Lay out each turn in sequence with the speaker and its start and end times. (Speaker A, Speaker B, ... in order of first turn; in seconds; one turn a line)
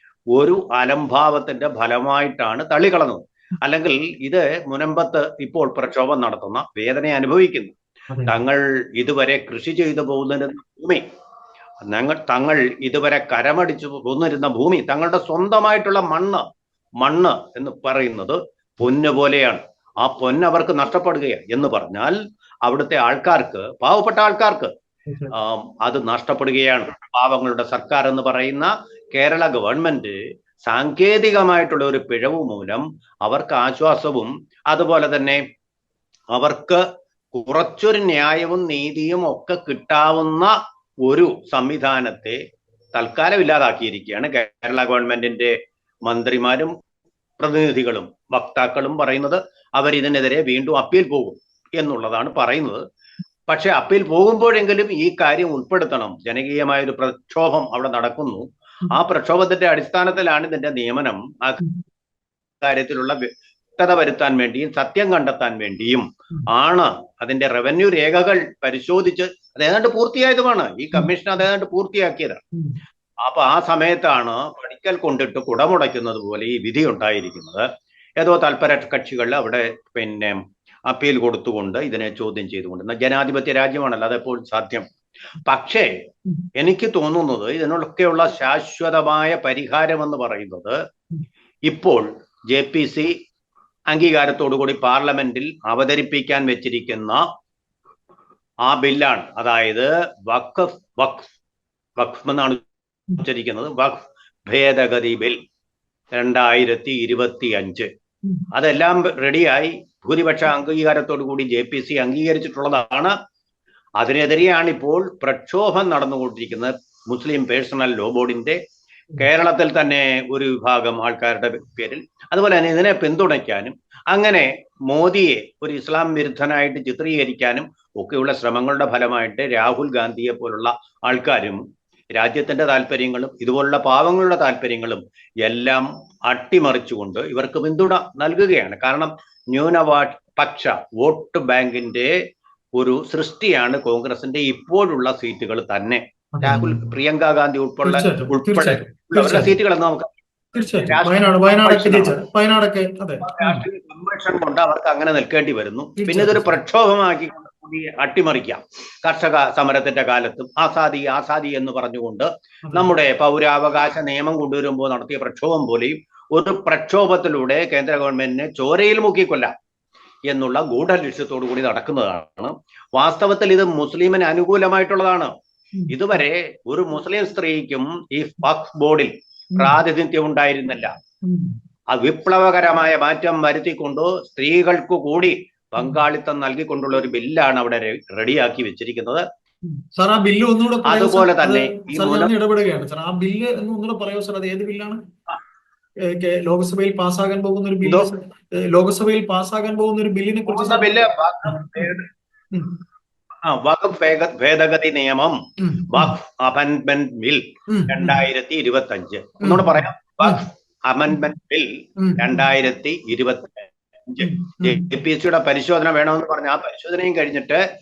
Speaker A: 0.3-7.8
Speaker A: 8.3-11.0
Speaker A: 11.8-16.4
Speaker A: 17.0-24.7
Speaker B: 25.1-25.3
Speaker A: 25.3-35.4
Speaker A: 36.3-36.8
Speaker A: 37.3-40.5
Speaker A: 41.0-42.4
Speaker A: 42.9-45.5
Speaker A: 46.0-46.7
Speaker A: 47.4-52.8
Speaker A: 53.5-61.6
Speaker A: 62.6-63.2
Speaker A: 63.8-72.4
Speaker A: 73.2-77.7
Speaker A: 78.2-84.8
Speaker A: 85.5-85.9
Speaker A: 86.6-90.8
Speaker A: 91.7-93.1
Speaker A: 93.9-97.2
Speaker A: 98.7-101.3
Speaker A: 102.0-102.6
Speaker A: 103.2-105.4
Speaker A: 106.1-107.9
Speaker A: 108.5-113.1
Speaker A: 114.0-118.6
Speaker A: 119.2-131.6
Speaker A: 132.2-142.1
Speaker A: 142.8-152.1
Speaker B: 146.3-146.9
Speaker B: 147.8-149.5
Speaker B: 150.5-153.6
Speaker A: 153.2-169.5
Speaker B: 156.0-156.6
Speaker A: 170.3-175.3
Speaker B: 175.8-176.2
Speaker A: 175.9-180.9
Speaker B: 181.2-181.5
Speaker A: 181.9-189.2
Speaker B: 189.7-195.0
Speaker A: 190.8-192.3
Speaker B: 196.1-200.9
Speaker A: 197.8-198.1
Speaker A: 200.5-202.1
Speaker B: 201.4-201.9
Speaker A: 203.4-217.6
Speaker B: 205.6-206.2
Speaker B: 207.7-208.2
Speaker B: 209.4-210.4
Speaker B: 212.0-212.5
Speaker B: 214.2-214.9